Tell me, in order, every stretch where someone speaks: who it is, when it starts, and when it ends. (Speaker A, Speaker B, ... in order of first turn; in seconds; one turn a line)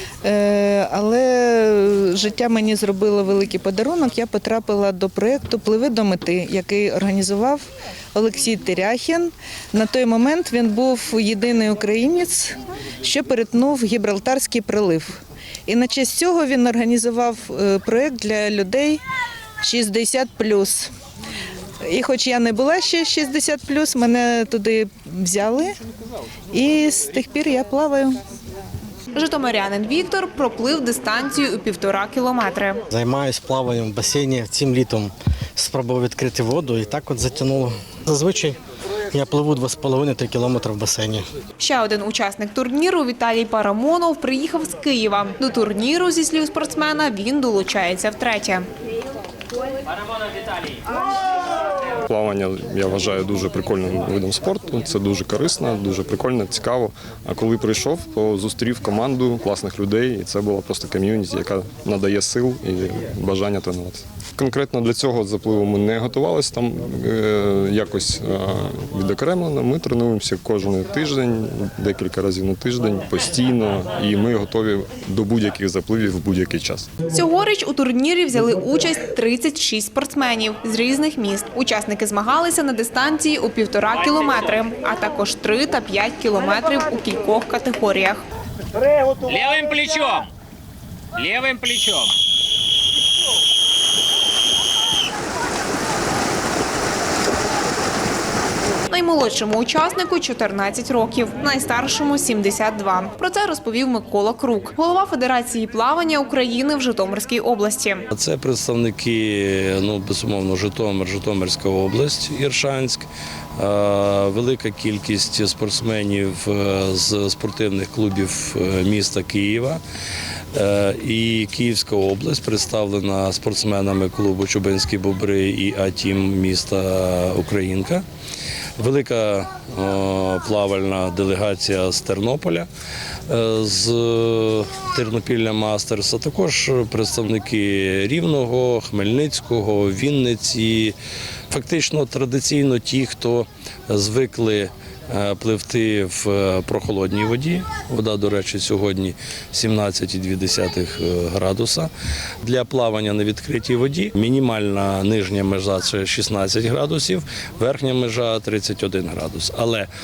Speaker A: 0.2-19.0
Speaker A: 19.6-20.9
Speaker A: 21.9-25.8
Speaker A: 26.5-28.2
Speaker B: 29.1-32.8
Speaker C: 32.9-38.6
Speaker C: 39.1-41.2
Speaker B: 41.6-48.7
Speaker D: 52.1-76.9
Speaker B: 77.1-88.2
Speaker E: 89.2-90.3
Speaker E: 91.2-92.1
Speaker B: 98.9-108.1
Speaker F: 108.1-119.8
Speaker F: 120.5-128.0
Speaker F: 128.8-132.7
Speaker F: 133.3-141.0
Speaker F: 141.5-151.9
Speaker F: 152.4-159.9